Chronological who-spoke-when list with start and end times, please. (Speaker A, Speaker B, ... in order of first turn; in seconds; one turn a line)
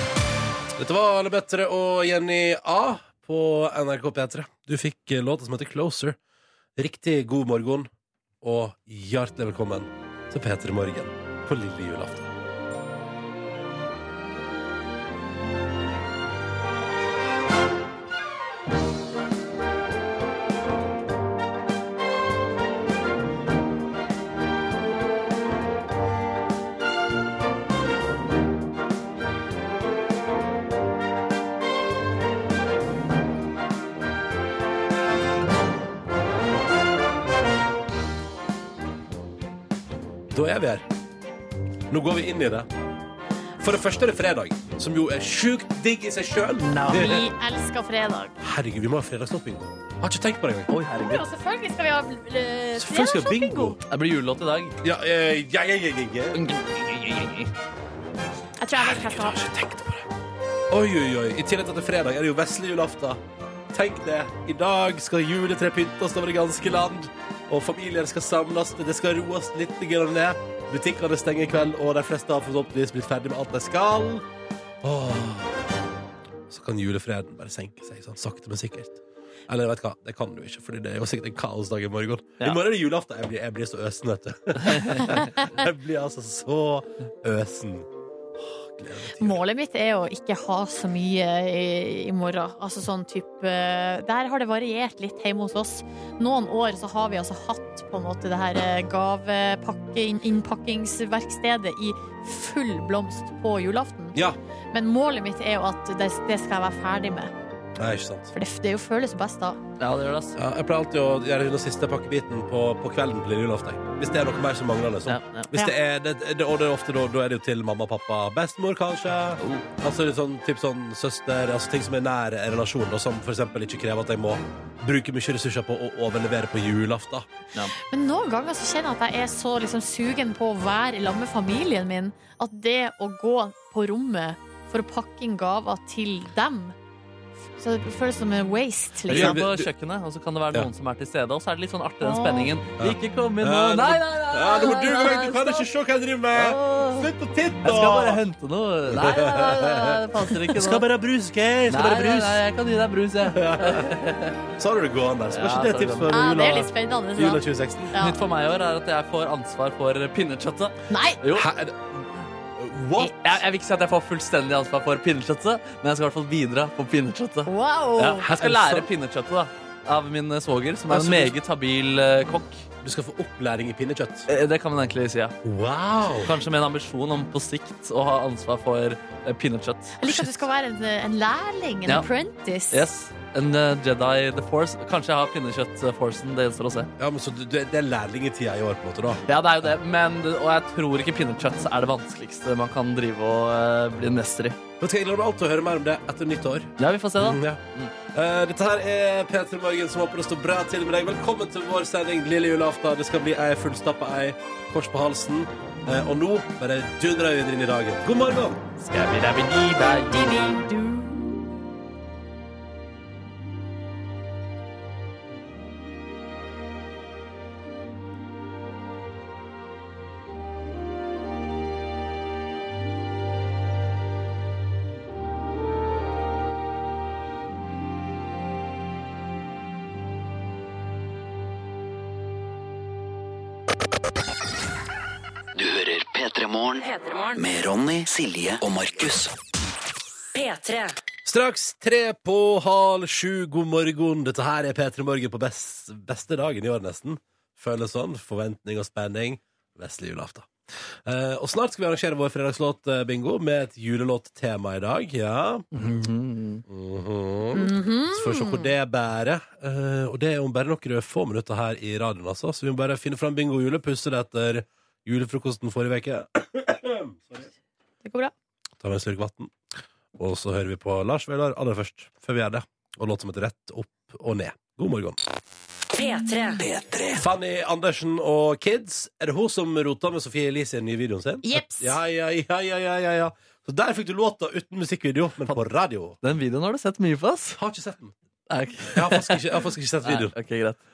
Speaker A: 0.8-6.2
Speaker A: 6.8-7.9
Speaker A: 8.4-12.3
Speaker A: 40.3-40.9
Speaker A: 41.9-42.7
Speaker A: 43.6-47.2
Speaker B: 46.6-47.1
Speaker C: 46.9-48.3
Speaker A: 48.4-50.7
Speaker B: 50.7-51.2
Speaker C: 51.0-53.8
Speaker A: 52.8-53.8
Speaker B: 53.9-54.8
Speaker A: 54.8-56.4
Speaker B: 56.3-57.5
Speaker C: 58.6-59.4
Speaker A: 58.8-60.1
Speaker A: 60.7-74.2
Speaker A: 74.8-75.6
Speaker A: 76.5-87.9
Speaker B: 84.5-85.2
Speaker C: 85.2-85.5
Speaker A: 88.4-89.4
Speaker C: 89.2-104.2
Speaker C: 104.7-107.3
Speaker A: 107.8-108.3
Speaker C: 108.3-109.6
Speaker B: 109.8-110.3
Speaker A: 110.3-127.3
Speaker B: 115.1-115.5
Speaker B: 119.4-119.7
Speaker C: 127.8-136.7
Speaker C: 137.5-139.4
Speaker B: 139.1-145.7
Speaker A: 139.1-139.7
Speaker C: 142.0-142.5
Speaker A: 142.8-148.2
Speaker B: 146.3-147.1
Speaker B: 147.6-150.8
Speaker A: 148.9-152.4
Speaker B: 151.7-154.4
Speaker A: 153.2-153.9
Speaker A: 154.5-157.9
Speaker B: 155.3-156.1
Speaker C: 156.1-158.2
Speaker B: 157.9-161.5
Speaker C: 160.9-161.2
Speaker A: 161.3-162.0
Speaker A: 162.6-163.3
Speaker B: 163.1-172.6
Speaker C: 167.5-168.3
Speaker A: 168.2-168.9
Speaker A: 170.9-171.3
Speaker A: 172.8-174.3
Speaker B: 174.3-175.4
Speaker A: 175.4-176.3
Speaker B: 176.2-180.3
Speaker C: 180.0-182.8
Speaker B: 182.7-186.9
Speaker A: 187.0-189.2
Speaker B: 189.3-194.6
Speaker A: 194.8-197.6
Speaker B: 196.8-197.9
Speaker A: 198.1-208.6
Speaker B: 208.8-210.7
Speaker C: 210.1-211.1
Speaker D: 235.5-239.3
Speaker E: 236.8-237.4
Speaker E: 240.3-240.9
Speaker A: 241.2-250.5
Speaker A: 251.0-255.7
Speaker B: 255.7-256.6
Speaker A: 256.7-267.5
Speaker C: 257.5-258.7
Speaker C: 268.0-268.3
Speaker A: 268.8-269.5
Speaker A: 270.1-275.2
Speaker E: 275.9-276.6
Speaker D: 276.6-277.2
Speaker A: 277.1-286.2
Speaker C: 281.4-282.0
Speaker B: 286.2-287.6
Speaker A: 287.6-288.1
Speaker B: 288.5-290.8
Speaker A: 288.9-290.3